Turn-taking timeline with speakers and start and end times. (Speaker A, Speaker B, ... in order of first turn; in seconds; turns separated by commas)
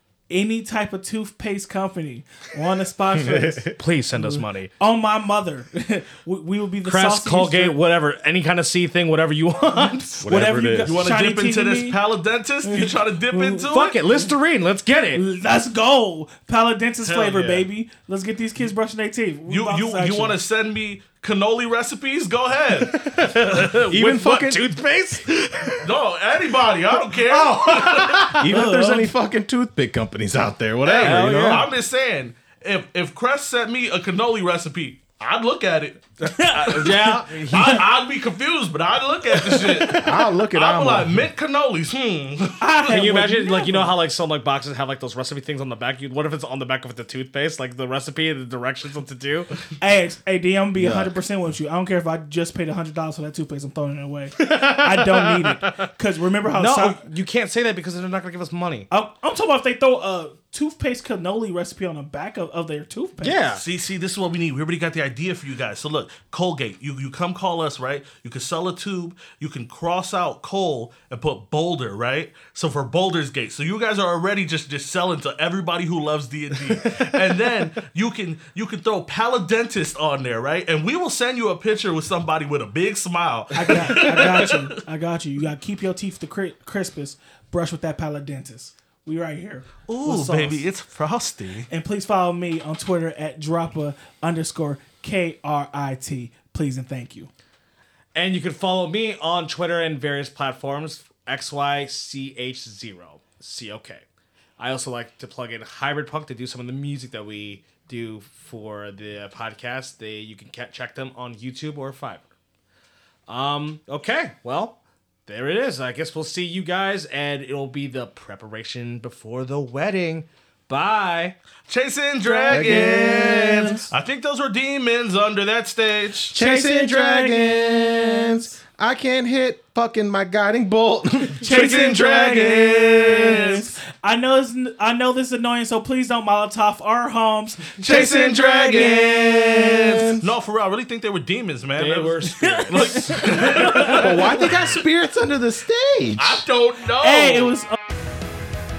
Speaker A: 0.3-7.8, Speaker B: 3.2-3.8, Speaker C: 3.8-4.7, Speaker C: 6.8-10.6, Speaker A: 9.7-12.0, Speaker B: 10.2-11.0, Speaker D: 10.8-14.0, Speaker A: 12.6-14.3, Speaker C: 13.7-15.2, Speaker A: 15.1-20.4, Speaker D: 17.0-17.7, Speaker D: 19.5-23.8, Speaker C: 22.7-25.9, Speaker B: 23.9-24.7, Speaker D: 25.8-28.4, Speaker C: 26.9-28.5, Speaker B: 28.3-31.7, Speaker A: 28.4-29.1, Speaker D: 30.8-42.6, Speaker C: 31.0-31.7, Speaker A: 36.3-36.5, Speaker C: 36.5-37.8, Speaker C: 39.4-40.1, Speaker B: 39.9-41.3, Speaker A: 42.6-43.9, Speaker C: 42.9-49.5, Speaker A: 49.8-57.0, Speaker B: 50.8-51.1, Speaker C: 54.4-55.9, Speaker C: 56.5-58.9, Speaker A: 58.9-63.4, Speaker C: 63.2-63.6, Speaker D: 63.5-84.7, Speaker A: 83.5-90.7, Speaker D: 89.9-91.7, Speaker A: 91.7-97.3, Speaker C: 98.2-104.0, Speaker C: 104.6-112.3, Speaker C: 113.3-121.4, Speaker D: 121.7-126.4, Speaker A: 122.2-123.6, Speaker B: 122.5-123.9, Speaker B: 126.3-133.6, Speaker A: 126.4-127.5, Speaker D: 131.4-133.6, Speaker A: 131.4-137.8, Speaker B: 137.8-140.3, Speaker D: 137.8-144.4, Speaker C: 141.8-144.6, Speaker A: 142.9-143.8, Speaker B: 143.8-146.4, Speaker D: 146.2-147.5, Speaker A: 147.0-147.8